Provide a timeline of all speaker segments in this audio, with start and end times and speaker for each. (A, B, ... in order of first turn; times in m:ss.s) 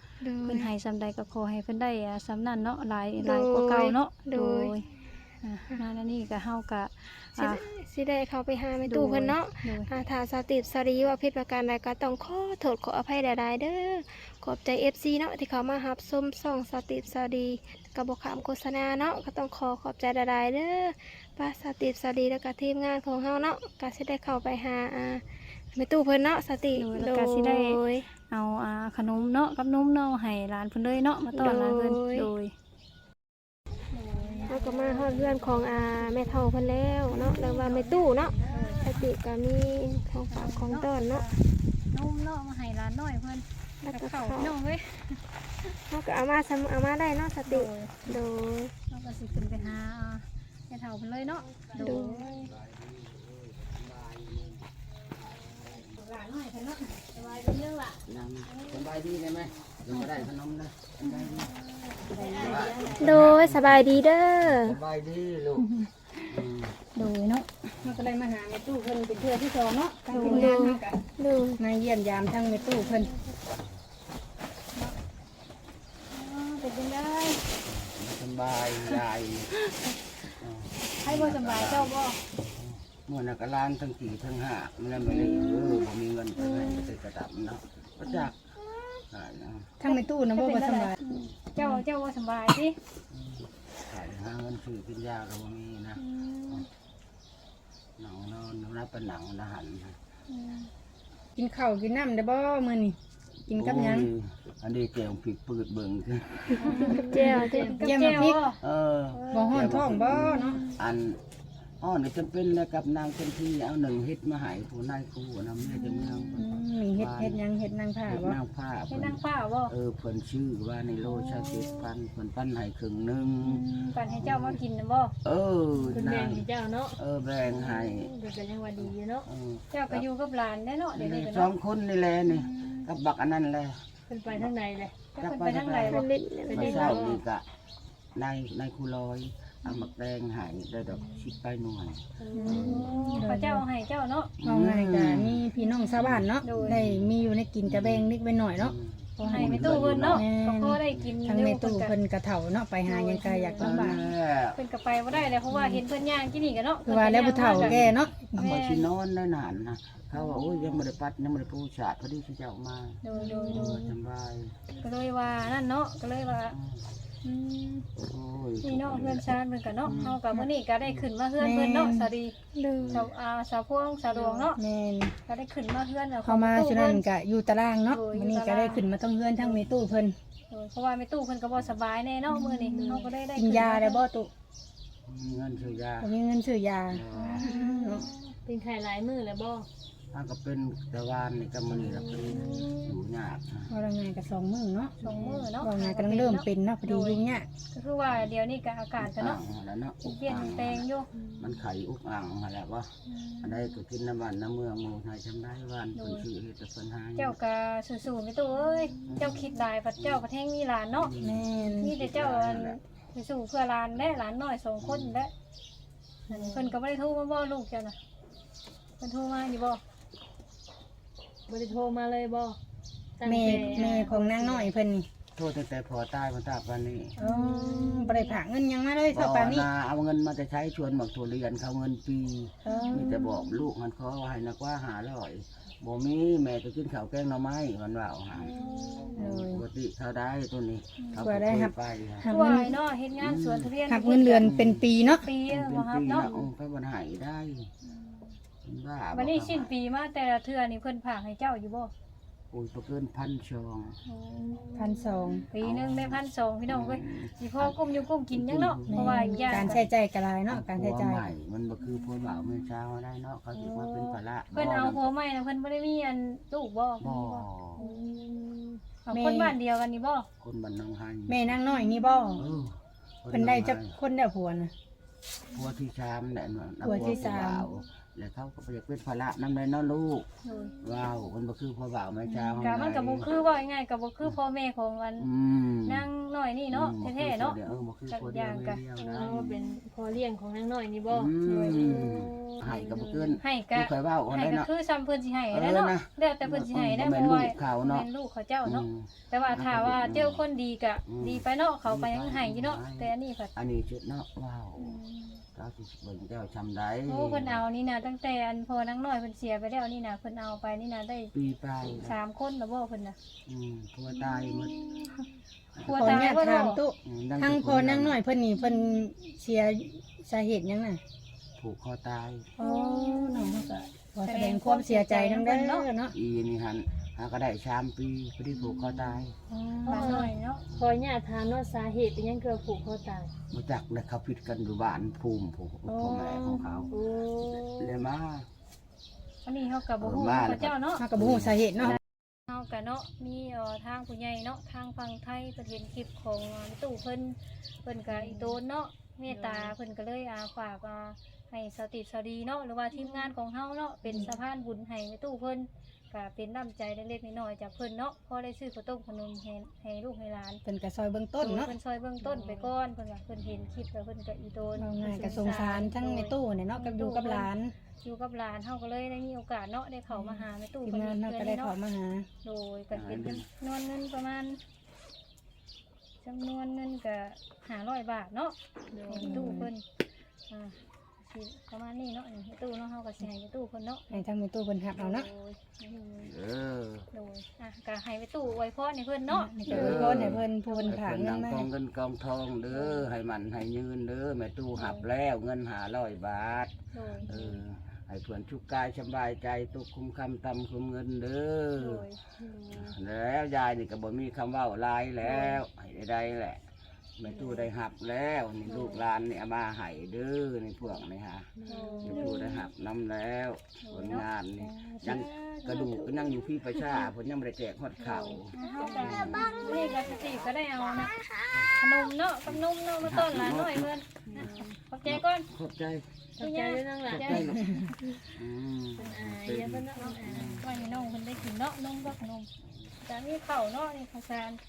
0:00.2-0:00.7 A
0:00.4-0:04.9 B
0:03.2-0:04.8 A
0:05.4-0:07.6 B
0:07.4-0:28.1 A
0:08.8-0:09.9 B
0:26.7-0:32.5 B
0:31.3-0:32.2 A
0:33.9-0:34.6 B
0:34.0-0:39.0 C
0:34.5-0:41.3 A
0:38.5-0:39.0 B
0:40.3-0:45.2 B
0:43.8-0:44.5 A
0:45.9-0:48.7 A
0:47.4-0:48.0 B
0:48.9-0:52.5 B
0:49.3-0:49.8 D
0:51.6-0:52.1 C
0:51.8-0:52.2 A
0:52.2-0:54.7 D
0:55.3-0:56.0 D
0:56.0-0:57.0 E
0:57.1-0:58.0 C
0:58.0-1:01.5 D
0:59.9-1:00.3 B
1:01.0-1:01.3 B
1:01.6-1:03.3 C
1:02.3-1:05.7 D
1:03.0-1:04.8 A
1:05.6-1:06.4 B
1:06.3-1:06.7 D
1:07.0-1:07.5 B
1:07.8-1:08.0 D
1:07.8-1:11.0 E
1:10.1-1:10.6 B
1:10.3-1:11.6 A
1:11.6-1:13.1 E
1:12.6-1:13.0 B
1:16.1-1:17.4 B
1:17.6-1:19.5 D
1:20.4-1:28.5 D
1:21.0-1:22.2 B
1:26.4-1:26.8 B
1:29.1-1:29.7 D
1:29.8-1:31.0 E
1:29.8-1:32.8 B
1:33.1-1:36.6 D
1:36.0-1:36.7 B
1:38.0-1:40.0 D
1:40.3-1:40.7 B
1:41.4-1:43.0 E
1:43.5-1:44.1 E
1:43.5-1:46.7 D
1:46.6-1:48.6 B
1:46.7-1:47.7 A
1:46.8-1:47.9 C
1:47.8-1:48.4 E
1:48.6-1:51.2 D
1:49.1-1:50.8 B
1:49.3-1:50.6 E
1:51.8-1:57.4 D
1:55.7-1:56.4 B
1:56.3-1:58.4 E
1:58.1-2:04.6 D
1:58.9-1:59.7 B
2:01.0-2:01.9 B
2:03.4-2:05.1 B
2:05.2-2:08.1 D
2:05.7-2:06.0 B
2:05.9-2:09.2 C
2:08.8-2:10.1 D
2:09.7-2:11.5 B
2:10.9-2:14.5 D
2:12.3-2:12.9 B
2:14.1-2:14.9 C
2:15.1-2:17.0 B
2:15.2-2:17.4 D
2:15.9-2:16.7 A
2:16.5-2:17.2 C
2:18.1-2:22.9 D
2:19.6-2:19.9 B
2:22.2-2:23.2 C
2:22.3-2:23.6 E
2:22.5-2:24.3 B
2:24.4-2:27.1 D
2:24.4-2:34.1 E
2:25.6-2:25.9 B
2:26.4-2:26.8 B
2:27.6-2:30.2 D
2:29.2-2:31.9 B
2:30.9-2:31.2 D
2:32.9-2:33.8 C
2:33.6-2:33.9 B
2:33.6-2:34.6 D
2:34.5-2:37.8 B
2:35.5-2:35.8 E
2:36.9-2:38.5 E
2:37.5-2:44.6 D
2:38.3-2:38.9 B
2:43.0-2:43.7 B
2:43.1-2:43.8 C
2:44.8-2:46.6 B
2:46.5-2:46.9 D
2:47.2-2:47.9 B
2:48.0-2:49.3 D
2:48.6-2:52.4 B
2:49.8-2:50.2 D
2:51.4-2:52.1 E
2:52.5-2:53.0 A
2:52.7-2:53.1 D
2:52.9-2:54.6 B
2:54.1-2:54.5 C
2:54.6-2:55.1 E
2:55.2-2:57.0 B
2:56.2-3:00.2 E
2:57.9-2:58.9 B
2:59.6-3:00.0 D
3:00.5-3:04.0 B
3:02.4-3:04.3 E
3:02.7-3:03.1 C
3:05.1-3:06.1 D
3:06.0-3:08.1 E
3:06.9-3:07.4 D
3:07.2-3:08.3 B
3:08.4-3:09.7 C
3:10.1-3:13.7 D
3:11.7-3:12.9 C
3:12.3-3:12.9 B
3:13.7-3:14.9 E
3:15.0-3:15.5 C
3:15.0-3:17.2 B
3:15.6-3:17.5 E
3:17.7-3:19.4 B
3:19.0-3:20.9 D
3:20.0-3:21.1 B
3:21.2-3:21.6 C
3:21.4-3:27.4 D
3:23.1-3:23.8 B
3:25.9-3:26.2 B
3:27.2-3:31.1 B
3:29.0-3:30.2 D
3:30.9-3:32.8 D
3:31.2-3:31.9 E
3:31.8-3:35.3 B
3:34.8-3:35.2 D
3:36.3-3:36.7 C
3:36.3-3:38.0 B
3:39.0-3:39.8 B
3:41.5-3:42.6 C
3:43.2-3:44.7 C
3:43.2-3:45.1 E
3:45.4-3:47.1 D
3:47.2-3:49.7 E
3:47.2-3:48.4 C
3:49.1-3:58.5 D
3:52.6-3:53.2 E
3:52.8-3:53.3 C
3:58.4-3:59.2 C
3:58.4-3:59.2 B
3:59.1-3:59.6 E
3:59.2-4:02.3 D
4:01.1-4:02.8 E
4:02.3-4:04.5 B
4:03.2-4:03.7 D
4:03.9-4:05.3 E
4:04.4-4:04.9 D
4:05.1-4:06.5 B
4:05.4-4:07.7 D
4:08.6-4:09.7 D
4:09.1-4:11.9 B
4:12.5-4:14.0 D
4:14.1-4:15.4 C
4:14.8-4:15.5 E
4:15.5-4:19.8 B
4:15.5-4:19.8 D
4:18.9-4:21.2 E
4:19.0-4:19.8 C
4:20.5-4:25.1 D
4:24.5-4:27.9 B
4:27.0-4:27.8 D
4:27.8-4:28.8 C
4:29.1-4:29.6 E
4:29.1-4:30.3 B
4:30.4-4:31.6 D
4:31.3-4:32.4 E
4:31.8-4:32.4 B
4:32.4-4:34.0 D
4:33.3-4:34.7 E
4:35.5-4:40.2 D
4:36.8-4:37.7 E
4:36.9-4:37.3 B
4:40.4-4:40.7 B
4:40.8-4:43.3 D
4:42.6-4:45.3 B
4:45.2-4:46.1 D
4:45.9-4:48.8 B
4:46.7-4:49.6 D
4:49.0-4:53.4 C
4:51.1-4:54.7 D
4:53.4-5:03.5 B
4:55.5-4:58.1 D
4:58.6-5:00.4 D
5:01.1-5:05.0 D
5:04.8-5:05.4 B
5:05.6-5:07.6 D
5:07.1-5:11.3 B
5:11.3-5:12.2 D
5:12.0-5:13.2 B
5:13.5-5:14.9 D
5:14.5-5:15.2 B
5:15.8-5:16.3 D
5:15.8-5:16.8 B
5:15.9-5:21.0 E
5:17.0-5:18.2 D
5:21.6-5:22.5 D
5:22.6-5:26.1 E
5:22.6-5:23.6 B
5:24.2-5:25.9 B
5:26.1-5:29.4 D
5:29.5-5:30.2 E
5:29.8-5:33.3 C
5:29.9-5:30.6 B
5:33.5-5:36.9 D
5:35.9-5:36.9 E
5:36.9-5:38.1 C
5:37.7-5:38.5 D
5:39.4-5:41.0 B
5:40.0-5:42.0 D
5:41.0-5:42.0 E
5:42.5-6:00.6 B
5:49.3-5:49.7 C
5:52.9-5:53.3 C
6:00.6-6:01.7 E
6:01.4-6:11.8 B
6:02.2-6:02.7 C
6:04.8-6:07.7 E
6:10.1-6:12.3 E
6:12.4-6:14.6 B
6:12.9-6:13.4 D
6:16.2-6:18.6 B
6:18.9-6:19.5 C
6:19.1-6:19.9 B
6:19.2-6:19.7 E
6:20.5-6:24.1 B
6:24.1-6:25.3 E
6:25.0-6:26.3 B
6:26.2-6:27.1 D
6:27.1-6:31.0 B
6:29.3-6:31.7 E
6:29.6-6:36.7 D
6:34.8-6:35.0 B
6:36.9-6:37.3 B
6:37.2-6:42.1 D
6:41.8-6:42.2 B
6:42.4-6:42.9 C
6:42.7-6:46.6 D
6:47.2-6:51.5 D
6:47.3-6:47.7 B
6:48.7-6:49.0 B
6:51.6-6:52.3 C
6:51.7-6:52.3 B
6:52.0-6:59.9 D
6:53.8-6:54.2 B
6:55.1-6:56.1 B
6:58.0-7:01.1 B
6:58.9-6:59.2 C
6:59.4-7:00.0 A
7:01.7-7:05.5 B
7:02.5-7:06.1 D
7:04.3-7:04.7 C
7:06.4-7:07.6 C
7:06.4-7:07.9 B
7:07.0-7:07.7 D
7:08.3-7:10.7 D
7:09.0-7:11.1 C
7:10.0-7:12.5 B
7:12.6-7:12.9 D
7:13.0-7:14.6 B